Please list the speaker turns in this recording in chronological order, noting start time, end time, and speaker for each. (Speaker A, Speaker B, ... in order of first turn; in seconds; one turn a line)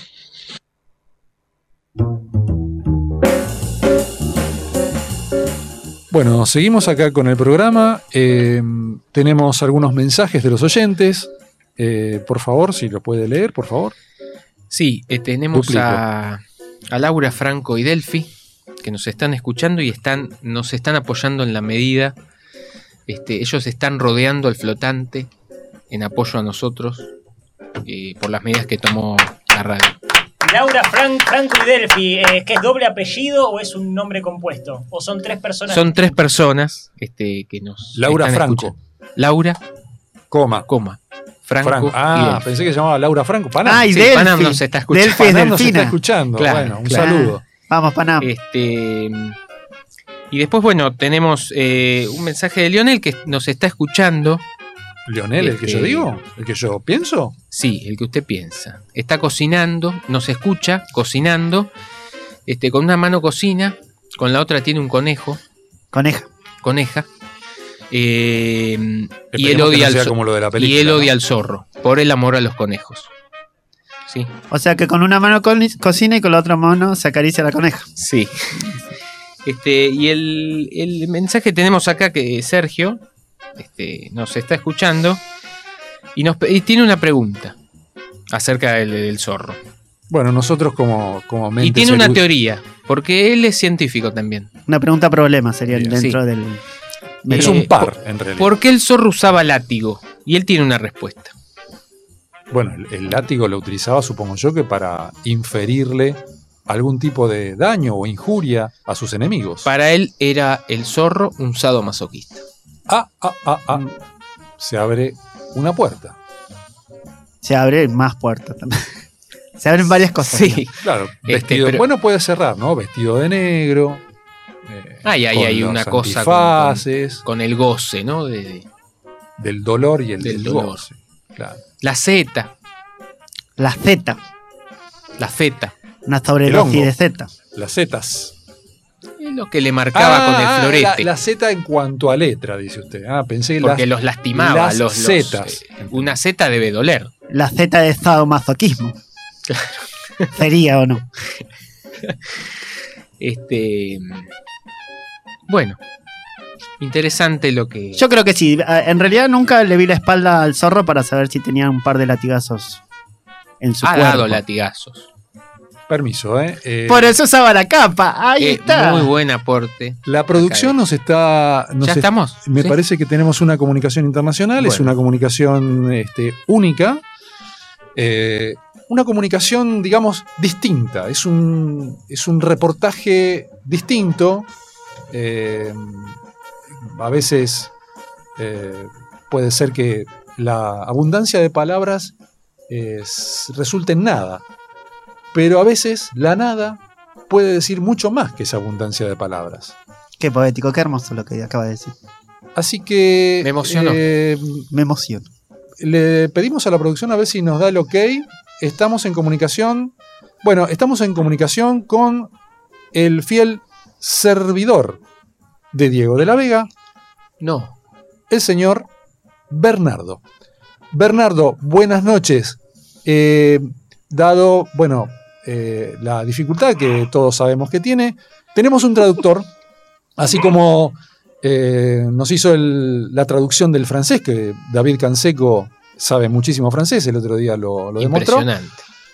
Speaker A: 6.1-13.9
Speaker B: 14.7-18.3
Speaker A: 15.5-16.0
Speaker B: 18.8-22.1
Speaker B: 23.1-25.3
Speaker B: 25.9-27.1
Speaker B: 27.9-30.0
Speaker C: 30.4-35.9
Speaker B: 35.7-39.6
Speaker A: 37.9-38.8
Speaker A: 40.3-40.7
Speaker B: 40.7-42.4
Speaker A: 41.6-43.9
Speaker D: 43.6-46.0
Speaker B: 43.9-45.6
Speaker A: 45.1-47.4
Speaker B: 46.4-47.3
Speaker D: 47.0-48.3
Speaker B: 48.2-49.4
Speaker B: 50.3-54.4
Speaker A: 55.1-57.4
Speaker B: 55.4-56.1
Speaker B: 57.5-61.7
Speaker B: 62.5-65.4
Speaker D: 65.9-66.3
Speaker B: 66.6-67.1
Speaker B: 67.9-73.1
Speaker A: 69.3-71.1
Speaker D: 74.5-77.9
Speaker B: 78.0-78.8
Speaker B: 79.5-83.0
Speaker B: 83.6-85.2
Speaker B: 86.2-87.5
Speaker B: 88.3-89.6
Speaker A: 90.1-92.2
Speaker B: 91.6-94.5
Speaker D: 94.7-96.6
Speaker A: 95.7-96.0
Speaker D: 97.2-97.6
Speaker A: 97.3-98.5
Speaker B: 97.3-101.3
Speaker A: 102.5-109.7
Speaker B: 109.7-112.4
Speaker A: 112.9-113.9
Speaker A: 114.6-116.2
Speaker D: 117.4-118.9
Speaker D: 119.6-120.7
Speaker B: 120.3-121.8
Speaker A: 120.8-124.0
Speaker A: 124.7-127.2
Speaker B: 125.0-128.7
Speaker A: 129.4-131.6
Speaker B: 130.2-130.8
Speaker B: 131.8-132.5
Speaker D: 133.6-134.2
Speaker B: 135.2-135.7
Speaker D: 136.1-137.3
Speaker A: 136.4-136.9
Speaker A: 137.5-138.3
Speaker B: 139.2-141.1
Speaker A: 139.9-146.2
Speaker B: 143.6-147.1
Speaker D: 147.3-149.0
Speaker D: 150.3-151.0
Speaker B: 152.0-152.5
Speaker B: 153.2-154.3
Speaker B: 155.5-155.8
Speaker B: 156.8-158.1
Speaker D: 158.0-162.8
Speaker D: 163.6-164.4
Speaker B: 163.8-165.1
Speaker A: 165.9-167.2
Speaker D: 166.9-169.1
Speaker B: 168.4-170.8
Speaker A: 170.1-177.0
Speaker B: 171.8-172.8
Speaker B: 174.6-174.9
Speaker A: 178.0-184.5
Speaker A: 185.1-186.2
Speaker A: 186.8-187.7
Speaker A: 188.4-192.1
Speaker A: 192.7-194.4
Speaker A: 195.3-199.8
Speaker D: 200.2-201.9
Speaker A: 202.6-204.7
Speaker B: 203.4-204.0
Speaker D: 204.7-205.3
Speaker A: 205.8-212.3
Speaker A: 212.9-215.0
Speaker A: 215.7-216.7
Speaker B: 217.4-217.8
Speaker A: 218.3-218.9
Speaker A: 219.5-220.2
Speaker A: 220.9-229.5
Speaker A: 230.2-238.5
Speaker B: 238.0-238.8